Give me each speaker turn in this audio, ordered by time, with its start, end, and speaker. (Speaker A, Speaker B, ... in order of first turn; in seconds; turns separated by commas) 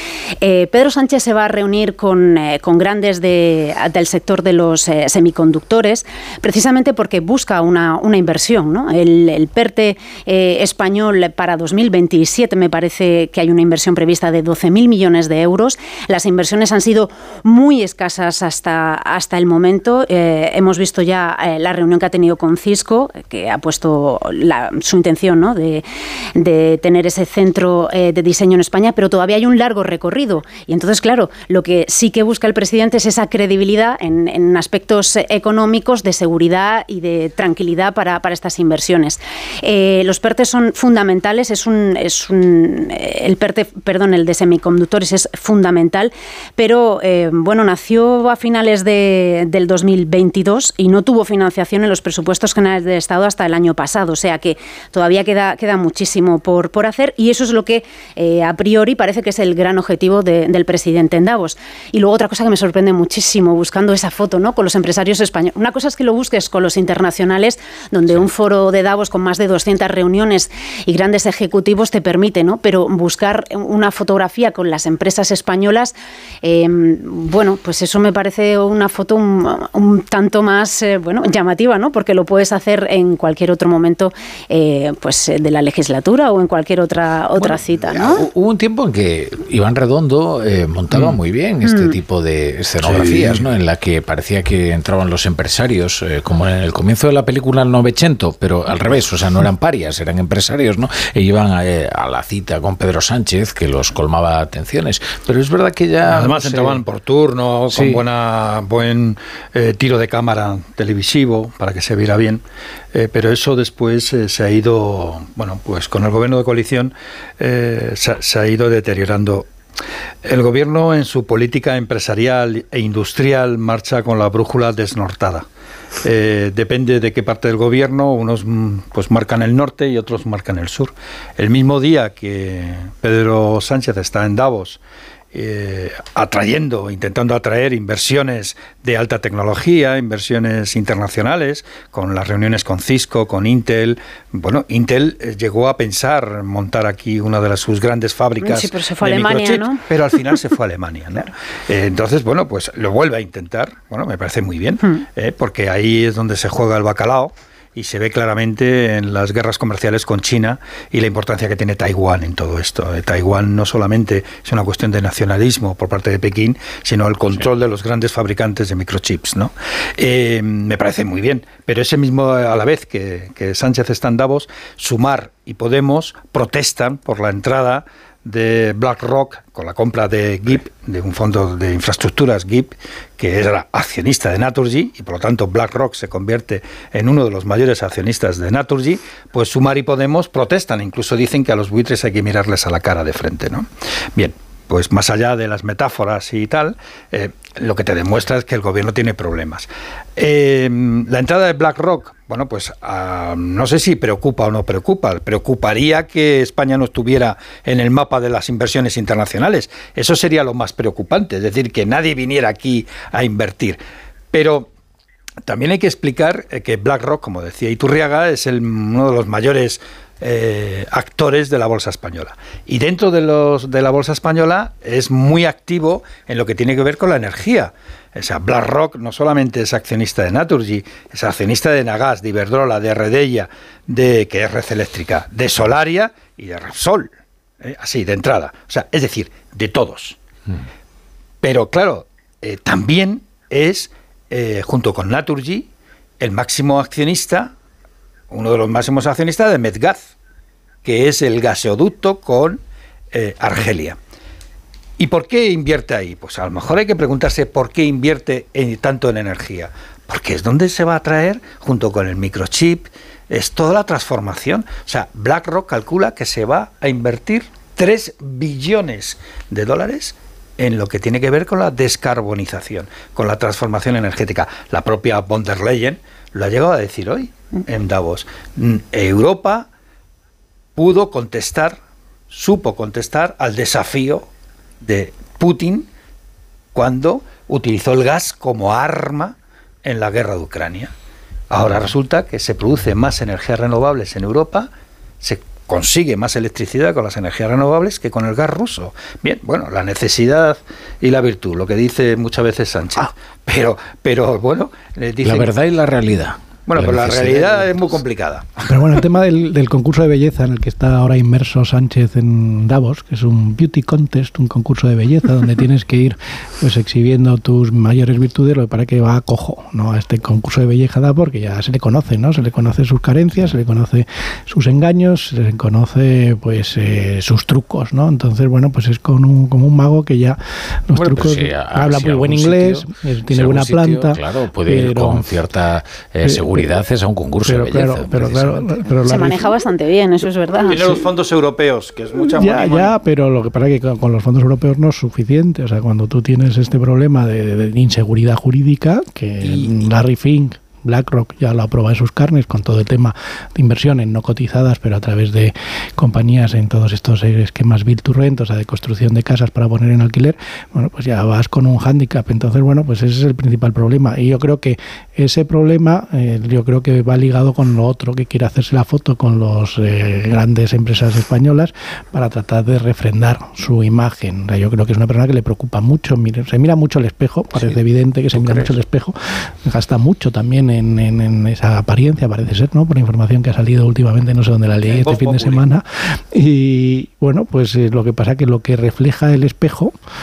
Speaker A: 0.4-88.2, Speaker B: 87.3-106.8, Speaker A: 91.6-92.0, Speaker C: 106.0-119.5, Speaker B: 107.7-108.0, Speaker C: 120.2-125.5, Speaker C: 126.0-134.8, Speaker C: 135.3-213.8, Speaker A: 148.4-149.8, Speaker C: 214.3-214.7, Speaker C: 215.4-240.2, Speaker C: 241.4-245.7, Speaker C: 246.2-247.5, Speaker C: 248.3-250.1, Speaker C: 250.8-252.6, Speaker C: 253.1-254.0, Speaker C: 255.0-279.7, Speaker C: 280.8-281.8, Speaker C: 282.3-284.3, Speaker C: 284.8-285.9, Speaker C: 286.7-290.9, Speaker C: 291.5-294.7, Speaker C: 295.2-305.5, Speaker B: 305.2-307.9, Speaker C: 306.7-308.6, Speaker D: 308.7-335.3, Speaker B: 330.9-338.7, Speaker D: 336.2-336.7, Speaker D: 337.4-339.5, Speaker A: 339.0-340.8, Speaker C: 340.6-342.9, Speaker D: 342.2-389.9, Speaker C: 349.4-349.8, Speaker B: 378.3-378.7, Speaker C: 384.8-385.7